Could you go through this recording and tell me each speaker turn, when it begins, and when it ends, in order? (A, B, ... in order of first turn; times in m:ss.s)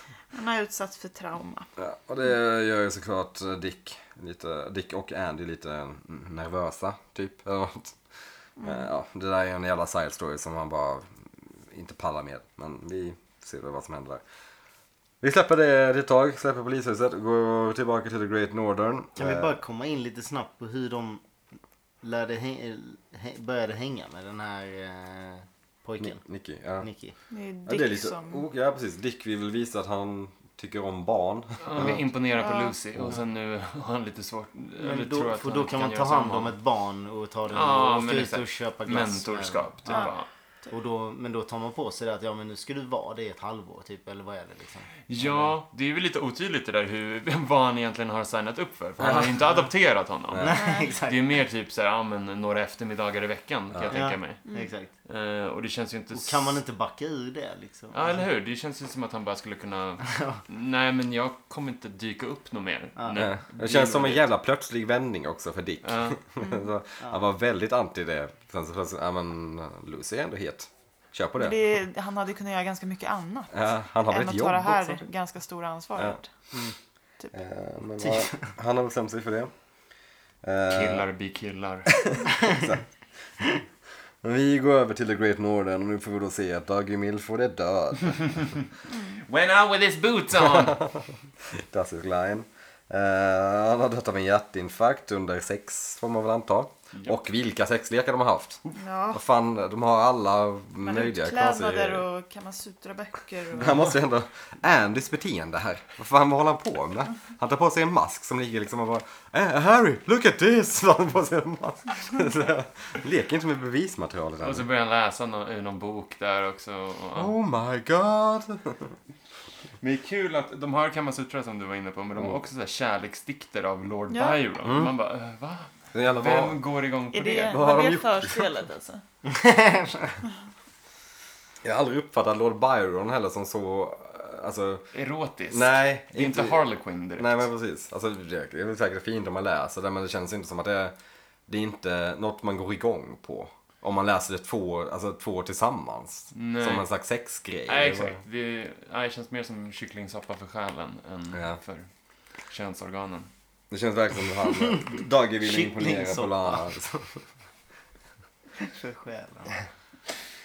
0:00.3-0:01.7 A
0:01.8-0:08.0 B
0:08.6-0:08.9 A
0:08.6-0:14.2 B
0:15.2-0:19.5 B
0:19.2-0:21.2 C
0:22.0-0:26.2 C
0:26.0-0:26.9 B
0:26.8-0:27.1 C
0:27.3-0:28.4 A
0:27.6-0:32.1 B
0:31.6-0:36.5 D
0:32.4-0:32.8 A
0:34.8-0:40.1 C
0:37.5-0:40.3 D
0:39.9-0:40.2 A
0:40.7-0:45.5 C
0:45.1-0:56.6 D
0:49.0-0:49.4 B
0:50.3-0:50.6 B
0:50.4-0:51.2 C
0:50.5-0:50.9 A
0:53.7-0:54.0 B
0:53.9-0:54.9 C
0:56.1-0:58.2 C
0:57.9-1:04.2 D
1:00.1-1:00.4 C
1:03.1-1:11.6 B
1:05.8-1:06.2 D
1:06.4-1:06.7 A
1:11.4-1:16.3 A
1:13.5-1:15.0 B
1:17.3-1:19.5 B
1:18.0-1:18.5 C
1:20.4-1:21.0 B
1:20.7-1:22.0 D
1:22.0-1:22.8 B
1:24.2-1:28.4 B
1:29.2-1:30.9 D
1:30.5-1:31.0 B
1:31.5-1:38.6 B
1:38.8-1:39.2 A
1:39.1-1:42.0 B
1:40.8-1:43.9 A
1:43.5-1:54.7 B
1:54.4-1:57.3 D
1:57.1-1:58.9 B
1:59.8-2:07.6 D
2:04.1-2:04.4 A
2:04.6-2:04.9 B
2:05.9-2:06.6 B
2:07.1-2:09.0 A
2:07.5-2:08.5 B
2:09.2-2:10.2 C
2:11.6-2:14.9 B
2:14.9-2:17.4 D
2:15.5-2:16.6 B
2:17.2-2:21.0 B
2:21.5-2:28.2 B
2:26.3-2:26.9 D
2:27.7-2:31.9 D
2:31.3-2:31.6 B
2:32.4-2:33.3 D
2:33.7-2:37.2 B
2:35.4-2:36.6 C
2:38.6-2:39.5 C